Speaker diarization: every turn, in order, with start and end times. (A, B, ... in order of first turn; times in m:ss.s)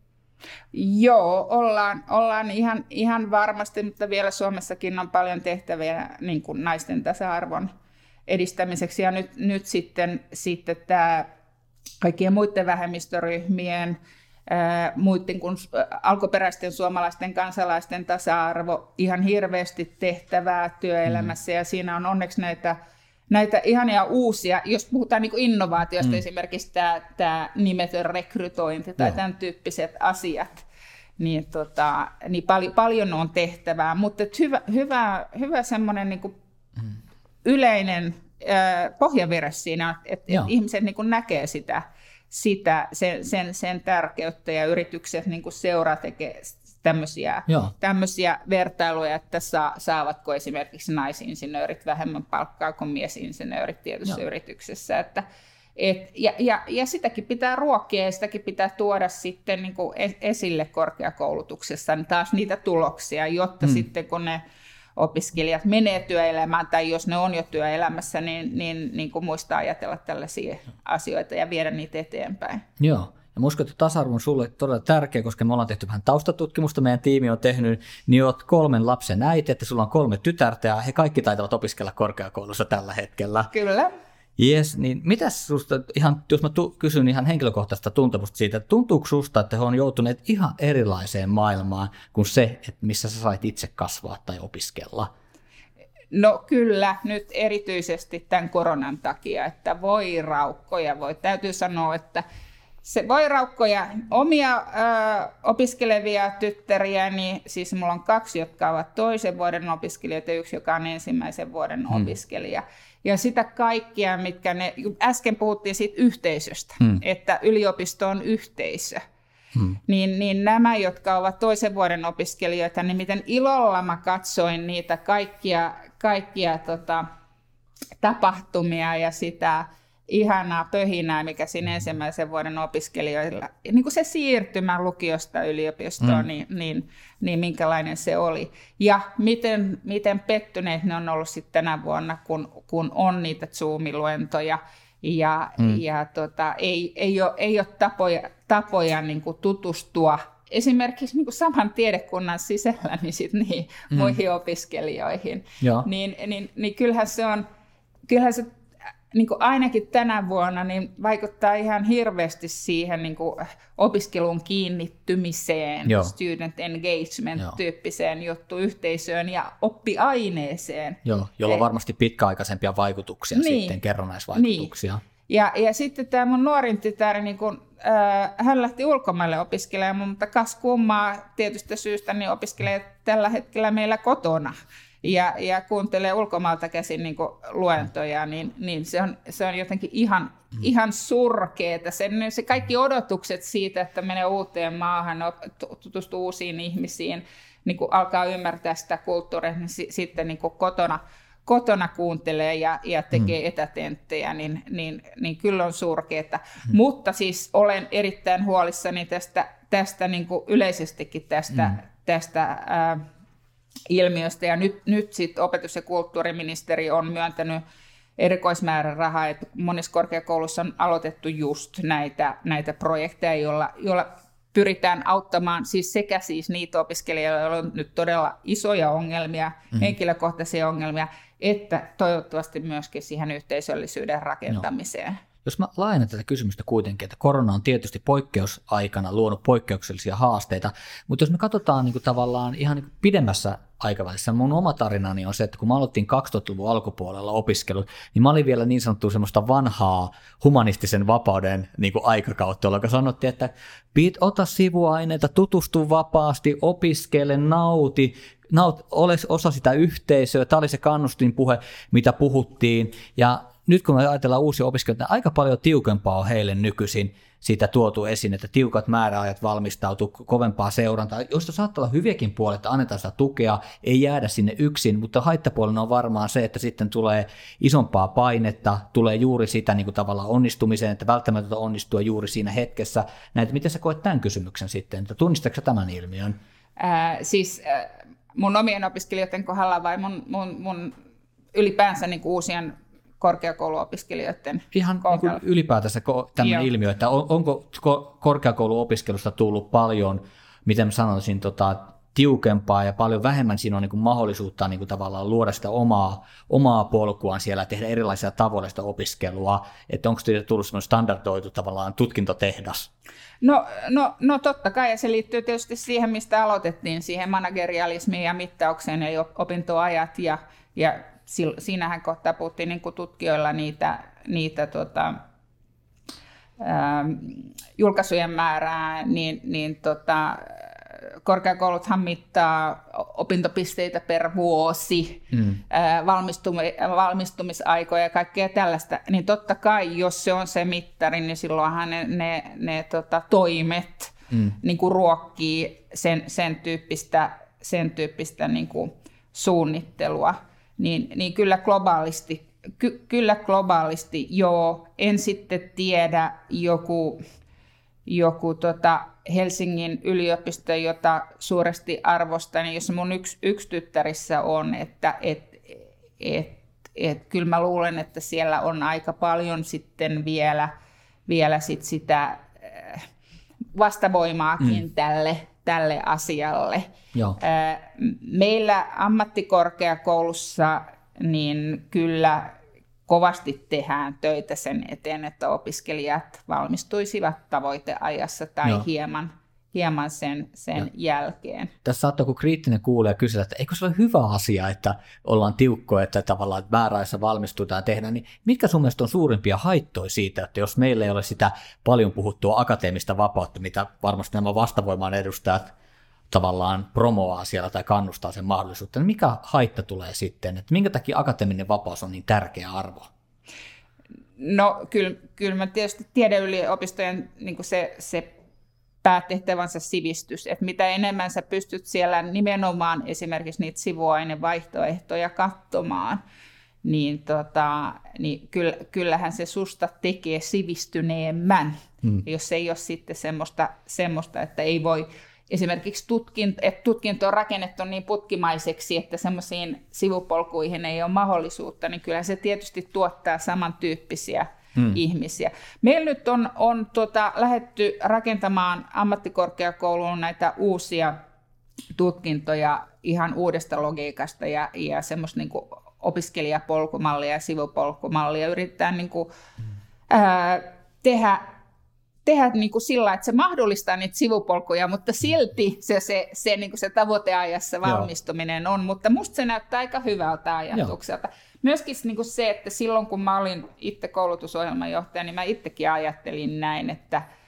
0:00.7-0:07.7 A
0:08.3-0:11.3 A
0:12.0-0:22.8 A
0:23.3-0:30.6 A
0:31.2-0:36.3 A
0:37.4-0:55.2 A
0:47.5-0:47.7 B
0:55.8-1:04.4 A
1:05.0-1:12.6 A
1:12.8-1:23.5 B
1:23.5-1:23.9 A
1:24.4-1:35.1 B
1:36.1-1:42.2 A
1:42.8-1:59.0 A
1:59.9-2:07.1 A
2:08.0-2:37.4 A
2:33.9-2:34.2 B
2:35.6-2:35.9 B
2:38.1-2:38.5 A
2:39.1-2:51.6 A
2:45.9-2:46.1 B
2:51.0-2:55.0 B
2:53.3-2:53.8 A
2:54.4-2:54.7 A
2:55.3-3:33.0 A
3:33.9-3:37.6 A
3:38.2-3:55.2 A
3:55.4-4:46.4 B
4:46.8-4:51.0 A
4:51.5-4:55.4 A
4:54.7-5:12.9 B
4:56.4-4:56.7 A
5:13.4-5:25.2 A
5:26.6-5:57.2 A
5:35.3-5:35.6 B
5:58.1-6:10.7 A
6:11.3-6:13.0 A
6:13.8-6:31.7 A
6:31.8-6:45.7 B
6:46.3-6:53.1 B
6:54.4-6:58.3 A
6:59.0-7:06.2 A
7:06.8-7:31.2 A
7:31.9-7:39.3 A
7:40.1-7:41.5 A
7:42.2-7:57.2 A